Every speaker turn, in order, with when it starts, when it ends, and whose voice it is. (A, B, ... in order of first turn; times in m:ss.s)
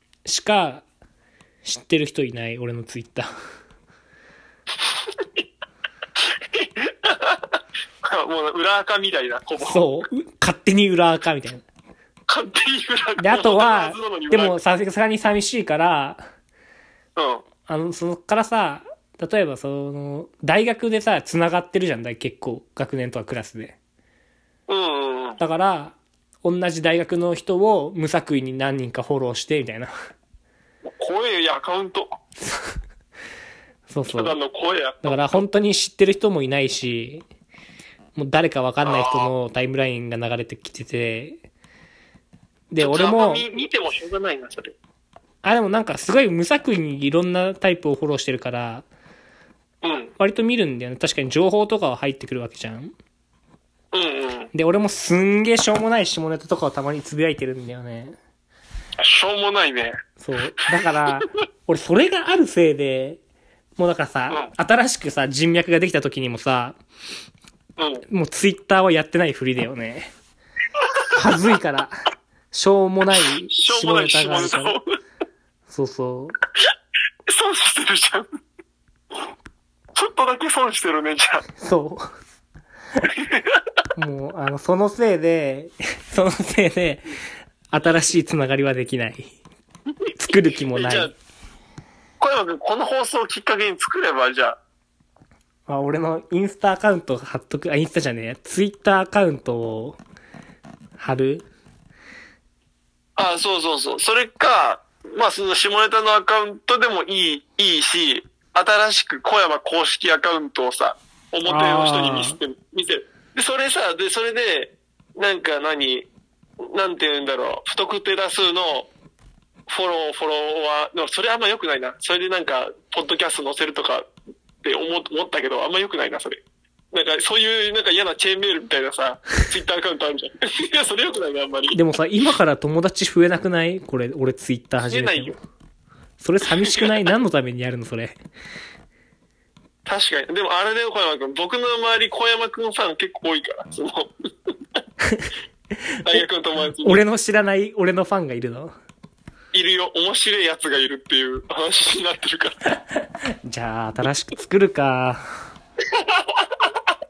0:00.3-0:00.8 A
0:01.6-0:03.3 A
0:04.8-0:05.4 B
0:06.2-0:09.9 B
0:09.6-0:11.6 A
0:12.3-0:14.6 B
0:13.2-0:16.2 A
0:17.2-0:17.4 B
0:17.7-0:23.8 A
0:24.7-0:25.4 B
0:25.4-0:29.9 A
0:30.8-0:32.2 B
0:32.4-0:32.8 A
0:33.9-0:34.4 A
0:34.1-0:35.4 B
0:35.0-0:37.2 A
0:38.2-0:41.4 A
0:38.8-0:39.3 B
0:42.7-0:43.4 A
0:42.8-0:44.8 B
0:45.4-0:48.8 A
0:49.8-0:50.1 B
0:50.2-0:52.9 A
0:53.9-0:54.5 B
0:54.5-0:58.2 A
0:59.0-1:00.0 B
1:00.2-1:03.2 A
1:00.7-1:01.1 B
1:03.8-1:06.8 A
1:07.8-1:08.0 B
1:08.1-1:10.1 A
1:10.8-1:11.1 B
1:11.1-1:11.9 A
1:12.5-1:14.8 A
1:13.5-1:14.8 B
1:15.7-1:16.4 A
1:17.3-1:18.3 B
1:20.0-1:21.4 B
1:21.6-1:22.1 A
1:23.1-1:23.7 B
1:24.0-1:27.1 A
1:27.7-1:29.4 A
1:30.1-1:31.1 A
1:30.6-1:31.1 B
1:32.2-1:34.6 B
1:35.7-1:40.0 A
1:41.0-1:41.5 A
1:43.2-1:56.1 B
1:51.4-1:52.4 A
1:56.6-1:58.9 B
1:59.7-2:04.1 B
2:04.6-2:06.4 B
2:06.9-2:11.8 B
2:11.7-2:15.4 A
2:14.8-2:15.4 B
2:16.2-2:18.2 A
2:16.6-2:16.9 B
2:19.8-2:24.8 B
2:25.0-2:25.3 A
2:26.0-2:27.0 B
2:26.8-2:28.7 A
2:29.5-2:32.6 B
2:32.9-2:35.3 A
2:35.8-2:36.8 B